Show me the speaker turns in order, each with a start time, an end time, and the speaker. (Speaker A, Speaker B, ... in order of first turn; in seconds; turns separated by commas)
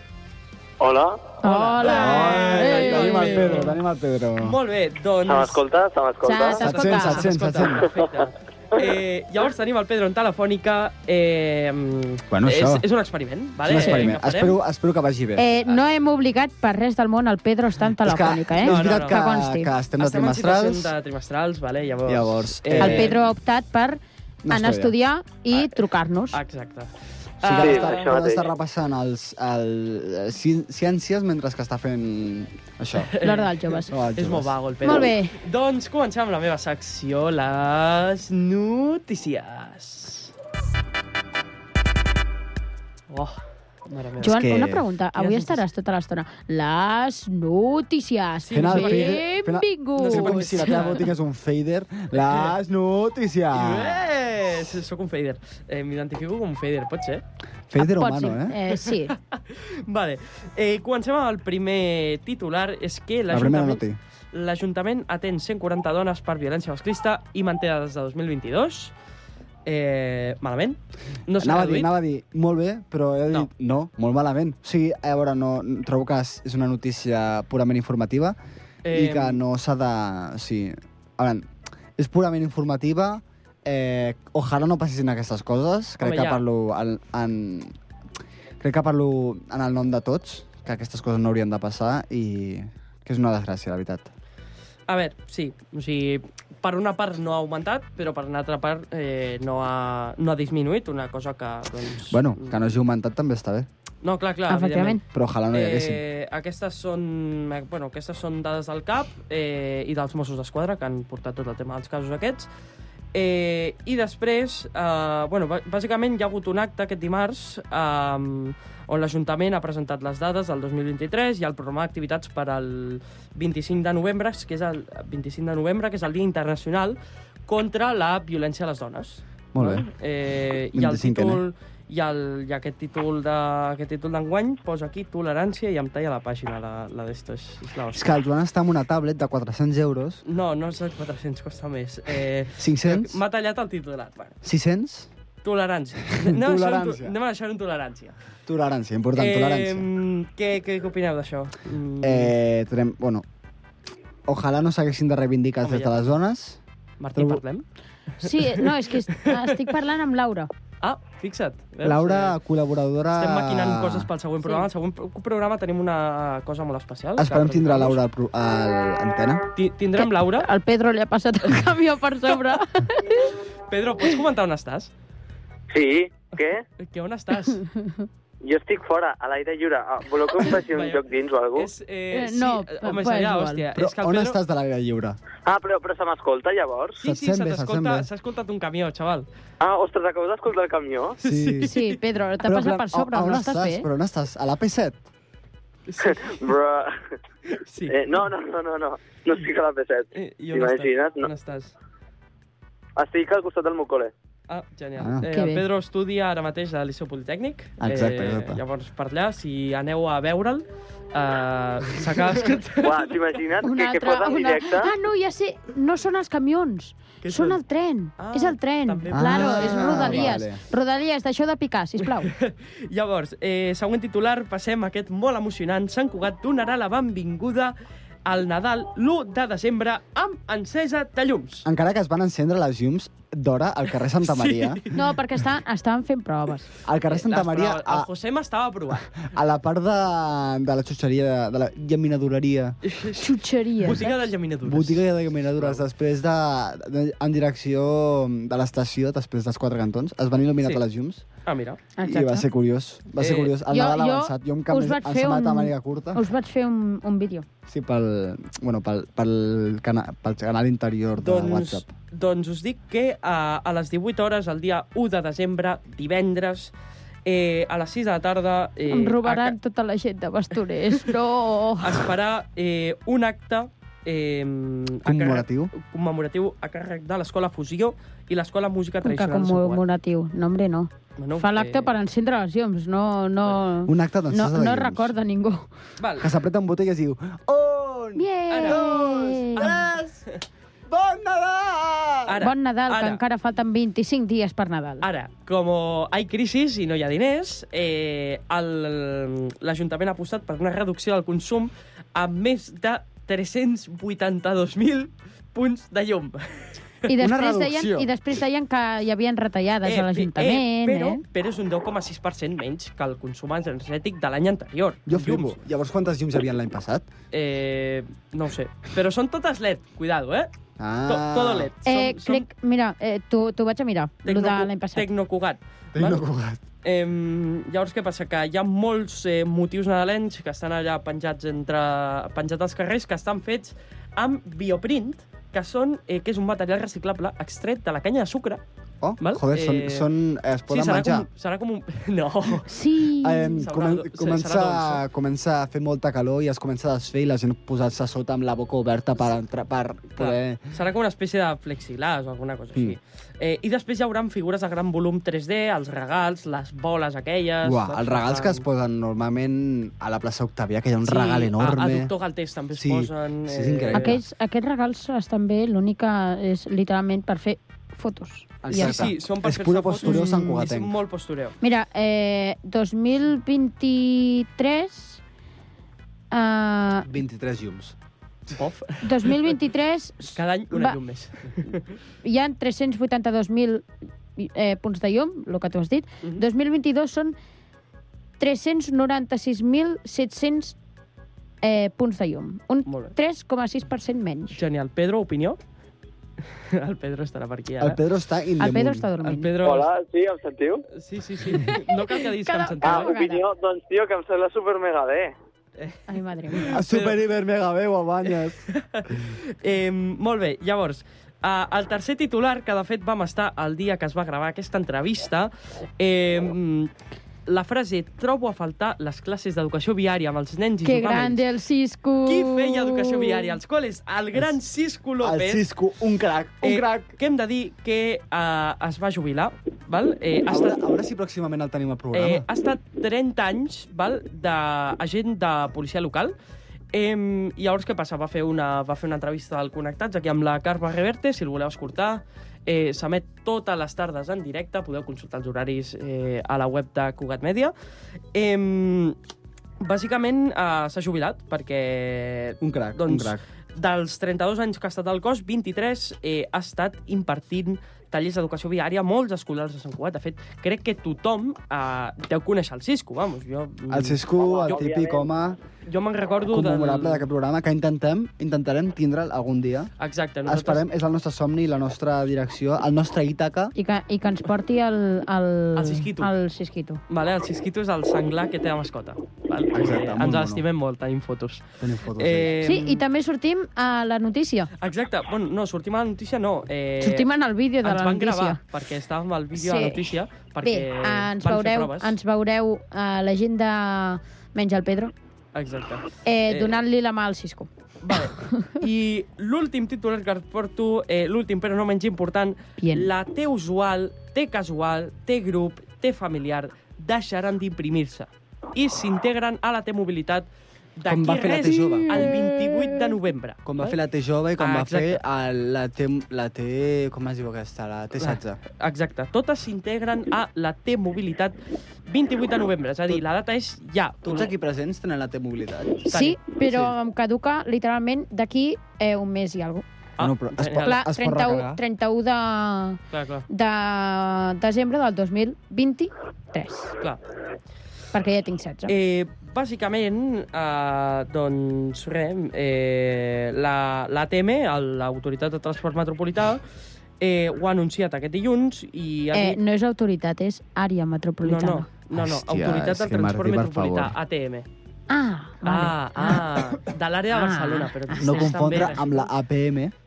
Speaker A: 0.8-1.3, Speaker B: 1.4-3.7, Speaker C: 1.4-3.8, Speaker D: 1.8-4.6, Speaker C: 4.4-5.6, Speaker A: 5.3-6.7, Speaker B: 6.2-7.3, Speaker D: 6.6-7.9, Speaker C: 6.7-14.6, Speaker D: 12.3-12.8, Speaker D: 13.6-15.4, Speaker B: 15.4-19.7, Speaker D: 18.0-20.9, Speaker C: 18.6-19.2, Speaker C: 20.0-23.2, Speaker D: 22.1-23.2, Speaker B: 22.8-26.4, Speaker D: 24.4-24.9, Speaker C: 26.3-28.1, Speaker D: 27.4-33.1, Speaker A: 27.6-28.5, Speaker C: 33.1-33.5, Speaker B: 33.2-33.9, Speaker D: 33.9-35.1, Speaker C: 34.1-40.3, Speaker B: 34.8-35.4, Speaker C: 43.1-43.4, Speaker C: 43.9-44.5, Speaker B: 44.2-50.9, Speaker D: 44.2-44.8, Speaker C: 45.1-45.6, Speaker C: 48.4-49.2, Speaker D: 48.5-54.0, Speaker C: 50.0-51.1, Speaker C: 52.1-52.5, Speaker C: 53.5-57.2, Speaker D: 57.7-58.6, Speaker B: 57.8-59.1, Speaker C: 59.1-68.9, Speaker D: 63.3-64.0, Speaker C: 69.7-71.9, Speaker D: 71.4-78.4, Speaker C: 78.8-79.4, Speaker D: 78.9-87.7, Speaker C: 86.0-86.4, Speaker D: 88.6-94.1, Speaker C: 94.9-102.6, Speaker D: 102.1-103.7, Speaker C: 104.0-112.5, Speaker B: 104.5-105.0, Speaker D: 105.1-106.0, Speaker C: 113.1-138.1, Speaker D: 129.5-129.9, Speaker D: 130.7-131.4, Speaker D: 137.9-140.2, Speaker C: 140.2-144.4, Speaker D: 142.6-143.2, Speaker D: 144.4-145.1, Speaker C: 145.4-148.2, Speaker D: 146.2-147.2, Speaker D: 148.5-149.9, Speaker C: 149.2-152.3, Speaker D: 152.0-153.2, Speaker D: 154.3-156.6, Speaker C: 155.6-156.1, Speaker C: 157.0-157.6, Speaker D: 157.2-157.4, Speaker B: 158.2-160.5, Speaker C: 158.5-159.7, Speaker C: 160.8-162.4, Speaker D: 161.8-164.1, Speaker C: 163.1-168.0, Speaker D: 167.2-169.4, Speaker C: 169.6-170.5, Speaker B: 170.0-173.3, Speaker C: 173.7-174.9, Speaker A: 175.7-176.6, Speaker C: 176.8-177.6, Speaker B: 177.6-178.0, Speaker A: 178.4-181.7, Speaker C: 180.5-184.4, Speaker B: 182.1-183.6, Speaker D: 183.8-185.2, Speaker A: 185.5-187.0, Speaker C: 186.9-189.3, Speaker D: 187.0-188.1, Speaker A: 189.6-191.2, Speaker C: 191.2-191.9, Speaker D: 191.2-191.8, Speaker B: 191.6-193.9, Speaker D: 192.4-195.0, Speaker C: 195.9-196.3, Speaker A: 196.1-197.0, Speaker C: 197.5-198.1, Speaker A: 197.9-201.3, Speaker C: 200.1-201.8, Speaker A: 203.0-204.1, Speaker C: 204.5-213.2, Speaker D: 205.0-205.2, Speaker B: 205.2-205.6, Speaker D: 207.8-208.6, Speaker A: 212.8-214.9, Speaker B: 213.6-222.3, Speaker C: 217.2-217.6, Speaker C: 218.2-220.4, Speaker D: 219.1-220.6, Speaker C: 222.1-227.7, Speaker C: 228.2-231.7, Speaker D: 231.7-234.8, Speaker C: 234.2-235.0, Speaker B: 234.9-236.7, Speaker D: 236.8-238.1, Speaker C: 237.1-239.1, Speaker D: 239.3-242.8, Speaker C: 242.8-245.8, Speaker B: 243.2-244.1, Speaker D: 243.9-251.2, Speaker C: 251.5-251.8, Speaker B: 252.0-252.5, Speaker D: 252.0-256.2, Speaker C: 253.2-253.6, Speaker B: 253.7-257.5, Speaker D: 257.7-261.9, Speaker C: 261.2-266.7, Speaker C: 267.2-269.6, Speaker B: 268.9-272.0, Speaker C: 271.8-279.8, Speaker D: 275.1-275.7, Speaker B: 279.0-285.7, Speaker C: 281.2-281.9, Speaker D: 283.9-285.1, Speaker C: 286.0-286.3, Speaker D: 286.2-290.2, Speaker B: 288.2-289.7, Speaker C: 288.5-288.8, Speaker C: 289.5-290.4, Speaker D: 290.9-292.4, Speaker C: 292.3-293.2, Speaker B: 292.4-295.1, Speaker C: 295.0-306.8, Speaker B: 307.1-311.2, Speaker D: 307.2-308.1, Speaker C: 309.8-315.6, Speaker D: 315.1-317.1, Speaker C: 317.3-320.5, Speaker D: 320.8-321.7, Speaker C: 321.1-322.5, Speaker B: 321.9-325.1, Speaker C: 324.2-326.2, Speaker D: 325.9-326.6, Speaker C: 326.8-338.6, Speaker D: 339.0-341.3, Speaker C: 339.2-340.1, Speaker C: 340.7-342.7, Speaker B: 342.7-343.6, Speaker D: 343.2-350.6, Speaker C: 343.6-345.0, Speaker C: 350.2-358.6, Speaker D: 357.6-362.1, Speaker C: 361.0-364.2, Speaker D: 362.8-364.2, Speaker B: 363.9-369.0, Speaker D: 368.6-370.9, Speaker C: 368.7-371.6, Speaker B: 371.6-375.2, Speaker B: 376.3-377.1, Speaker D: 377.1-377.9, Speaker C: 378.6-379.5, Speaker B: 379.0-381.0, Speaker C: 380.4-381.8, Speaker B: 382.2-383.9, Speaker B: 384.4-387.4, Speaker B: 388.4-390.8, Speaker B: 391.6-394.6, Speaker C: 392.9-393.1, Speaker C: 394.5-395.6, Speaker C: 396.7-398.0, Speaker D: 397.8-399.1, Speaker B: 398.6-399.5, Speaker C: 399.2-399.9, Speaker A: 399.6-400.9, Speaker C: 400.9-403.1, Speaker B: 401.5-403.4, Speaker A: 402.8-405.3, Speaker B: 406.1-406.8, Speaker C: 406.6-407.2, Speaker D: 406.7-408.7, Speaker C: 408.7-416.9, Speaker C: 417.5-421.4, Speaker B: 420.8-423.6, Speaker C: 422.3-425.6, Speaker D: 425.2-427.1, Speaker C: 426.6-430.8, Speaker D: 430.5-432.5, Speaker C: 432.1-436.4, Speaker C: 436.9-447.7, Speaker C: 448.3-449.2, Speaker C: 449.8-464.9, Speaker D: 452.6-453.4, Speaker D: 463.9-465.6, Speaker A: 464.3-465.3, Speaker C: 465.9-467.3, Speaker D: 466.5-469.9, Speaker C: 470.0-470.9, Speaker D: 470.5-473.7, Speaker B: 473.8-477.0, Speaker C: 475.8-476.3, Speaker C: 477.1-481.6, Speaker D: 479.7-480.6, Speaker D: 481.8-482.6, Speaker C: 482.2-483.0, Speaker B: 482.6-484.7, Speaker C: 484.8-487.3, Speaker B: 487.0-488.6, Speaker C: 487.8-492.1, Speaker B: 489.6-495.1, Speaker C: 495.5-496.8, Speaker B: 496.2-497.7, Speaker C: 498.0-514.0, Speaker B: 498.5-498.8, Speaker B: 502.8-503.1, Speaker D: 511.1-512.5, Speaker B: 512.2-512.5, Speaker D: 513.6-518.6, Speaker C: 514.6-515.2, Speaker C: 518.2-521.6, Speaker C: 522.1-524.5, Speaker D: 524.2-526.1, Speaker C: 526.1-526.4, Speaker B: 526.1-529.9, Speaker D: 526.6-526.9, Speaker C: 530.2-531.0, Speaker D: 530.2-531.8, Speaker B: 530.8-536.9, Speaker C: 533.1-533.5, Speaker B: 538.1-538.9, Speaker C: 538.9-546.6, Speaker C: 547.2-549.6, Speaker B: 549.3-551.9, Speaker C: 551.4-554.7, Speaker D: 552.1-554.1, Speaker B: 555.1-556.4, Speaker C: 555.6-559.2, Speaker B: 557.3-559.0, Speaker D: 558.2-559.9